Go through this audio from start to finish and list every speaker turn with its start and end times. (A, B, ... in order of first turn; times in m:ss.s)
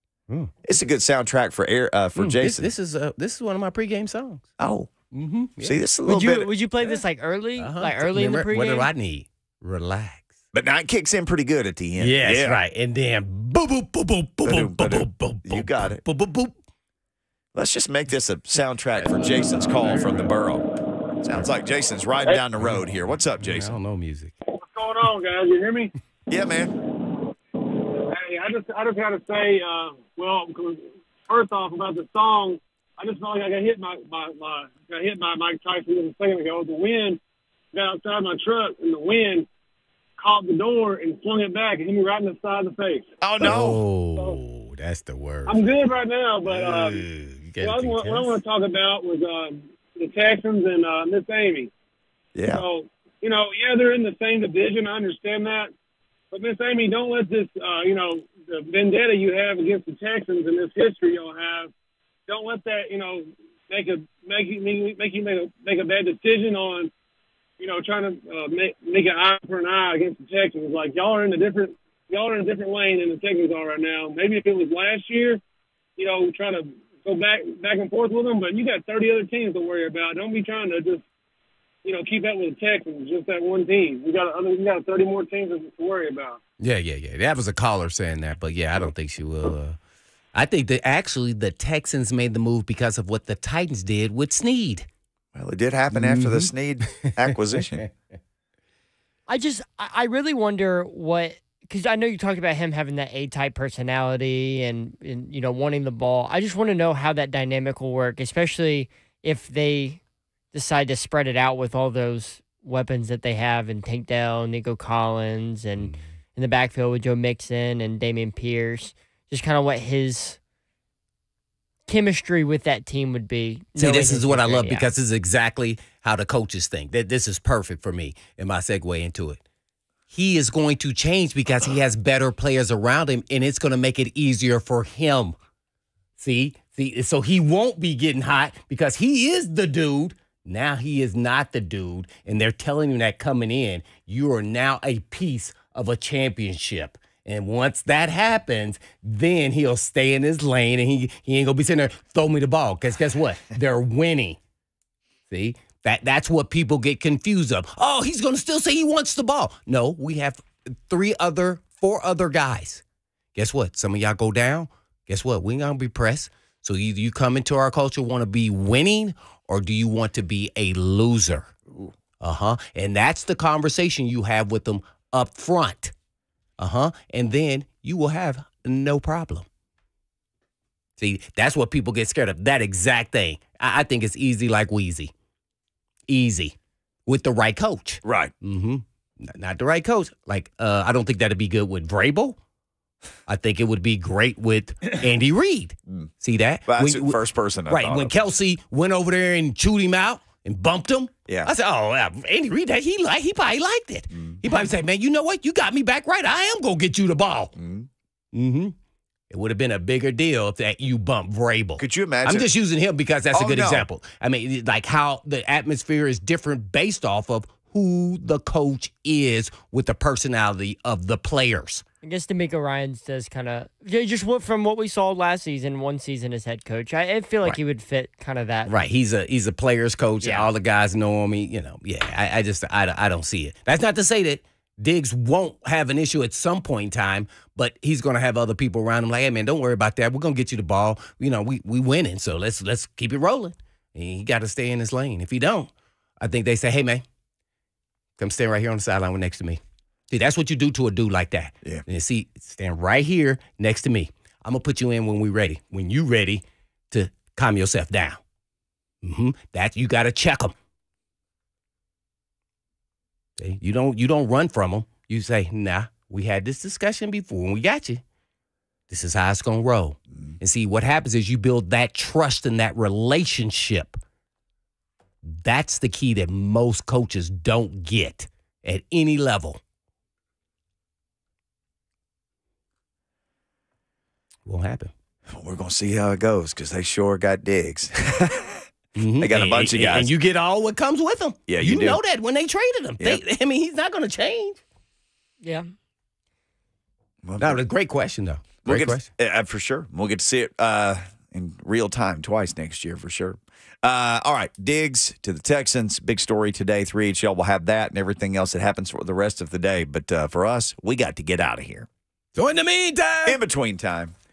0:00.3-0:00.6 A
0:00.6-0:02.7 B
0:02.2-0:04.5 A
0:04.6-0:04.9 B
0:05.1-0:05.8 A
0:05.6-0:06.5 B
0:06.1-0:08.9 C
0:07.6-0:10.4 A
0:10.5-0:12.6 B
0:12.0-0:16.6 A
0:14.4-0:16.0 B
0:17.6-0:20.7 B
0:19.0-0:20.3 A
0:21.2-0:23.8 B
0:22.6-0:24.4 A
0:24.6-0:25.9 D
0:26.3-0:26.8 B
0:27.9-0:37.2 D
0:37.7-0:39.5 D
0:40.2-0:43.1 D
0:43.2-0:43.8 B
0:43.4-0:45.6 A
0:45.5-0:47.0 D
0:46.5-0:48.4 A
0:47.6-0:51.7 D
0:52.4-0:52.6 B
0:52.5-0:55.7 D
0:56.3-1:01.7 D
1:02.3-1:06.9 D
1:07.6-1:15.4 D
1:16.0-1:21.0 D
1:21.8-1:26.4 D
1:26.6-1:29.8 A
1:30.3-1:34.9 A
1:35.4-1:37.9 B
1:35.9-1:37.9 A
1:39.3-1:50.0 C
1:50.5-2:00.4 C
2:01.9-2:04.9 C
2:03.8-2:09.4 A
2:10.1-2:15.4 A
2:16.2-2:34.4 A
2:35.3-2:42.8 A
2:43.4-2:51.6 A
2:52.2-2:55.9 A
2:56.6-2:59.5 A
3:01.0-3:05.1 A
3:06.1-3:06.6 A
3:07.1-3:12.4 A
3:08.0-3:08.3 B
3:13.3-3:27.5 A
3:16.7-3:18.1 B
3:24.1-3:24.4 B
3:27.6-3:27.9 B
3:28.3-3:28.8 A
3:29.3-3:41.8 A
3:31.8-3:32.5 B
3:33.3-3:33.9 B
3:42.0-3:48.7 C
3:48.7-4:07.0 A
3:50.2-3:50.5 C
4:08.2-4:18.2 A
4:19.0-4:20.6 A
4:23.4-4:28.0 A
4:28.9-4:34.0 A
4:35.2-4:39.6 A
4:44.5-4:44.9 A
4:45.3-4:48.6 B
4:49.0-4:54.6 A
4:49.2-4:50.1 B
4:51.5-4:52.0 B
4:55.4-4:55.7 C
4:57.2-4:57.6 B
4:57.4-4:59.1 A
4:58.6-5:11.9 B
5:12.4-5:13.4 A
5:13.3-5:14.2 B